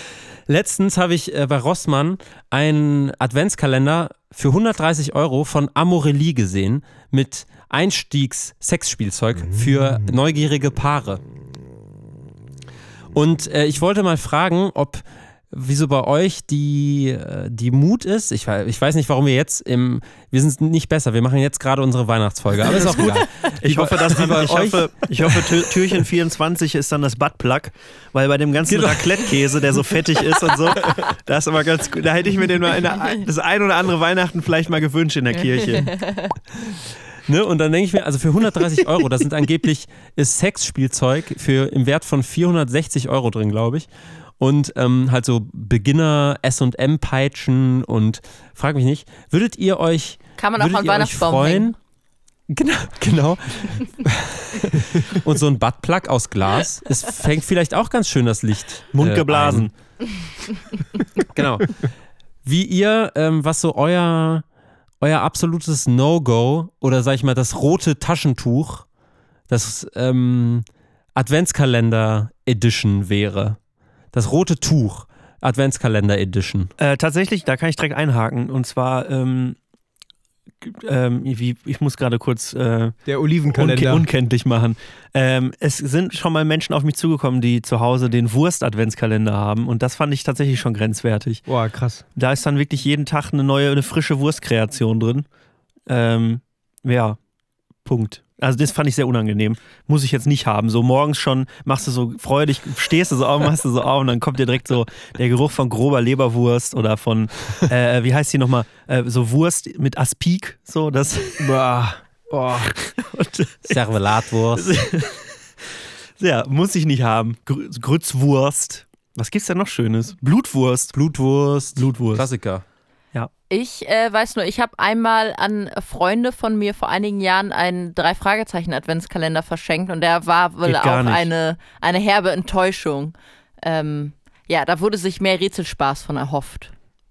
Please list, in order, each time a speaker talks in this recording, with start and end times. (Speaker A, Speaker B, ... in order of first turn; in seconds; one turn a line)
Speaker A: 0.5-11.2
Speaker A: 13.1-25.6
Speaker B: 22.9-36.0
Speaker A: 28.6-29.3
Speaker C: 35.4-36.3
Speaker A: 37.3-51.8
Speaker C: 50.4-51.7
Speaker A: 52.5-59.7
Speaker B: 58.9-59.7
Speaker A: 61.3-61.9
Speaker A: 62.5-64.5
Speaker A: 65.0-68.9
Speaker A: 69.5-73.6
Speaker A: 74.1-76.7
Speaker B: 76.8-79.6
Speaker B: 80.6-83.0
Speaker D: 83.1-84.1
Speaker B: 83.6-91.5
Speaker D: 91.5-92.0
Speaker B: 92.2-95.3
Speaker B: 95.9-97.2
Speaker B: 97.8-111.4
Speaker D: 111.4-112.7
Speaker B: 112.7-113.8
Speaker A: 113.7-114.7
Speaker B: 114.5-115.4
Speaker B: 116.2-120.9
Speaker A: 120.9-122.6
Speaker B: 121.8-122.3
Speaker C: 123.5-136.7
Speaker B: 130.6-131.3